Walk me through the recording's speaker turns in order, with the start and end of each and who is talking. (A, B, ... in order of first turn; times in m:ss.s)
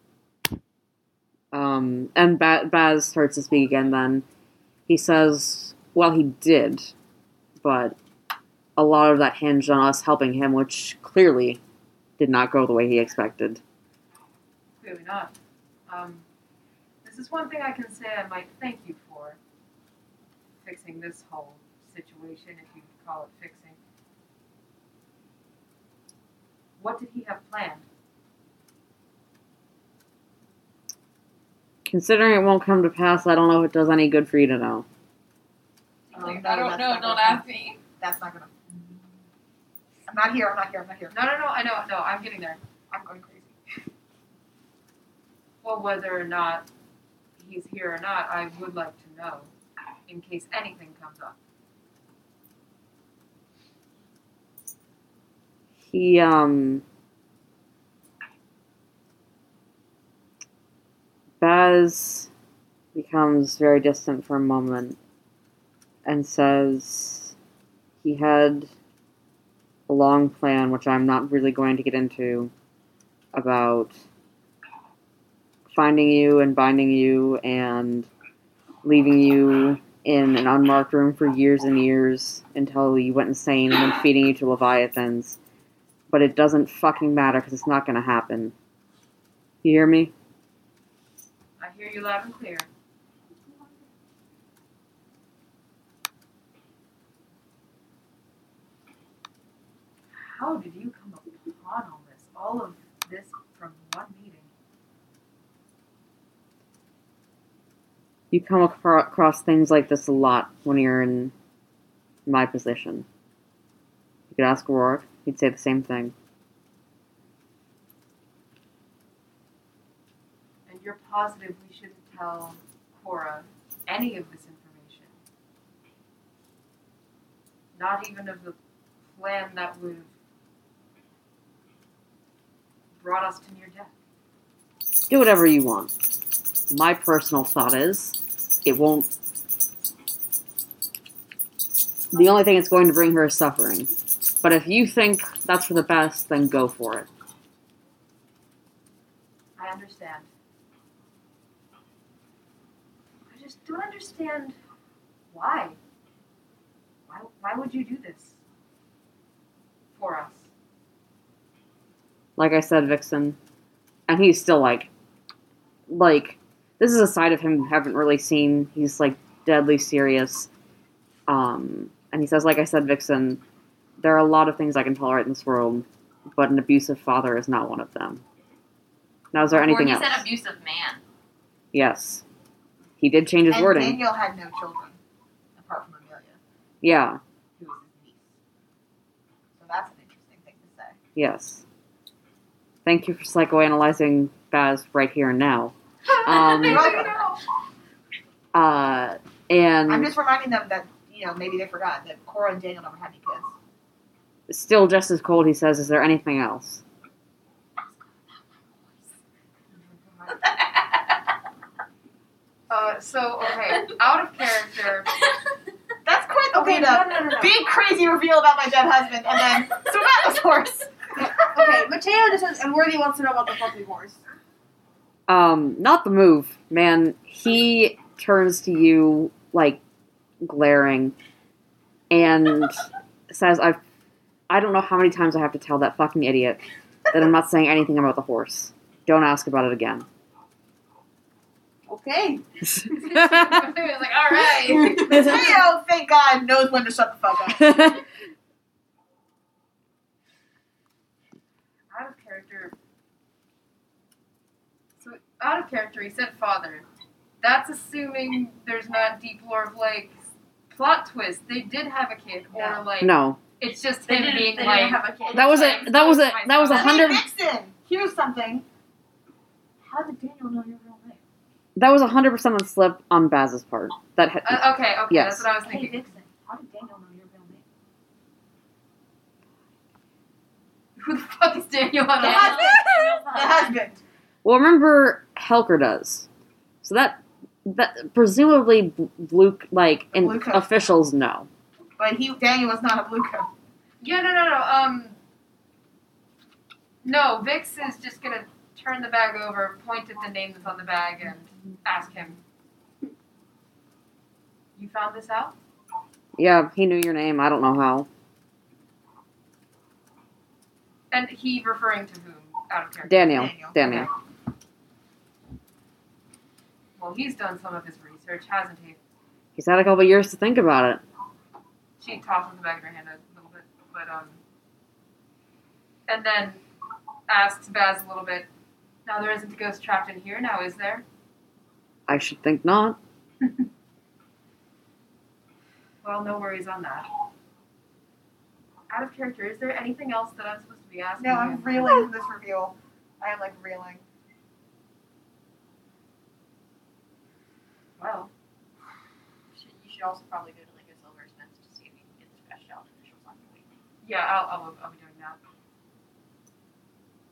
0:01.5-0:04.2 A
0:04.9-0:06.9 A
0:07.6-0:08.0 A
0:08.8-0:11.6 A
0:12.2-0:13.6 A
0:14.8-0:15.3 B
0:15.9-0:16.2 B
0:17.0-0:19.4 B
0:20.6-0:23.8 B
0:26.8-0:27.8 B
0:31.8-0:34.9 A
0:36.1-0:37.8 C
0:36.2-0:37.4 D
0:38.0-0:38.6 D
0:40.1-0:41.2 D
0:41.1-0:42.6 B
0:42.9-0:43.6 D
0:45.6-0:46.7 B
0:47.4-0:49.5 B
0:50.1-0:51.4 B
0:55.8-0:56.8 A
1:01.4-1:02.3 A
1:02.9-1:05.0 A
1:06.0-1:07.4 A
1:08.0-1:08.7 A
1:09.9-1:12.5 A
1:13.3-1:14.0 A
1:15.7-1:18.1 A
1:18.8-1:25.4 A
1:26.1-1:28.5 A
1:29.6-1:30.1 A
1:31.6-1:32.7 B
1:40.1-1:44.5 B
1:48.3-1:51.3 A
1:52.3-1:53.1 A
1:54.3-1:56.1 A
2:00.7-2:05.1 B
2:07.8-2:08.6 B
2:09.1-2:10.1 B
2:13.0-2:13.9 B
2:15.1-2:15.9 A
2:16.7-2:19.1 A
2:22.1-2:27.1 A
2:29.6-2:30.3 B
2:33.3-2:34.6 B
2:35.3-2:35.8 B
2:37.1-2:38.4 B
2:39.9-2:40.5 B
2:42.4-2:43.4 A
2:44.1-2:44.9 A
2:45.9-2:50.5 A
2:51.3-2:53.4 A
2:54.0-2:58.2 A
2:59.3-3:00.2 A
2:59.4-3:01.0 C
3:01.7-3:02.2 A
3:03.0-3:04.0 A
3:03.5-3:05.0 D
3:05.6-3:06.4 D
3:06.8-3:07.2 A
3:07.6-3:08.2 B
3:09.6-3:11.0 D
3:11.2-3:11.6 A
3:12.8-3:17.0 A
3:16.5-3:17.3 D
3:18.5-3:20.1 A
3:19.9-3:23.5 D
3:24.5-3:26.8 A
3:29.7-3:30.5 B
3:32.7-3:35.1 B
3:36.0-3:41.0 D
3:36.5-3:37.6 E
3:41.2-3:44.2 E
3:45.3-3:49.8 A
3:50.4-3:51.2 A
3:52.1-3:52.8 A
3:53.3-3:53.8 A
3:54.5-4:00.1 A
4:01.9-4:02.4 E
4:02.7-4:03.7 A
4:02.9-4:05.5 B
4:04.6-4:05.1 E
4:05.1-4:05.5 A
4:05.1-4:07.9 D
4:07.6-4:08.0 A
4:11.9-4:12.7 B
4:15.0-4:16.8 B
4:17.4-4:20.2 B
4:20.7-4:26.7 B
4:23.0-4:23.4 A
4:24.1-4:27.0 C
4:25.3-4:27.2 A
4:26.7-4:28.7 D
4:29.9-4:31.2 D
4:31.8-4:35.5 A
4:34.4-4:36.1 B
4:35.8-4:36.0 D
4:41.0-4:42.8 B
4:42.2-4:43.8 C
4:42.2-4:44.0 D
4:44.4-4:46.3 A
4:46.8-4:51.5 A
4:50.1-4:50.7 D
4:52.0-4:53.5 D
4:54.0-4:55.2 B
4:57.0-5:02.4 B
5:04.8-5:05.6 B
5:06.4-5:08.1 A
5:11.1-5:14.1 B
5:13.0-5:14.1 A
5:13.3-5:13.8 D
5:17.0-5:19.0 B
5:19.6-5:21.0 A
5:22.0-5:24.4 B
5:26.1-5:26.6 B
5:27.3-5:28.5 B
5:29.1-5:31.0 B
5:32.1-5:33.0 A
5:36.0-5:37.1 B
5:38.9-5:42.0 B
5:41.2-5:44.0 D
5:48.0-5:48.3 B
5:49.5-5:53.7 C
5:54.0-5:55.4 B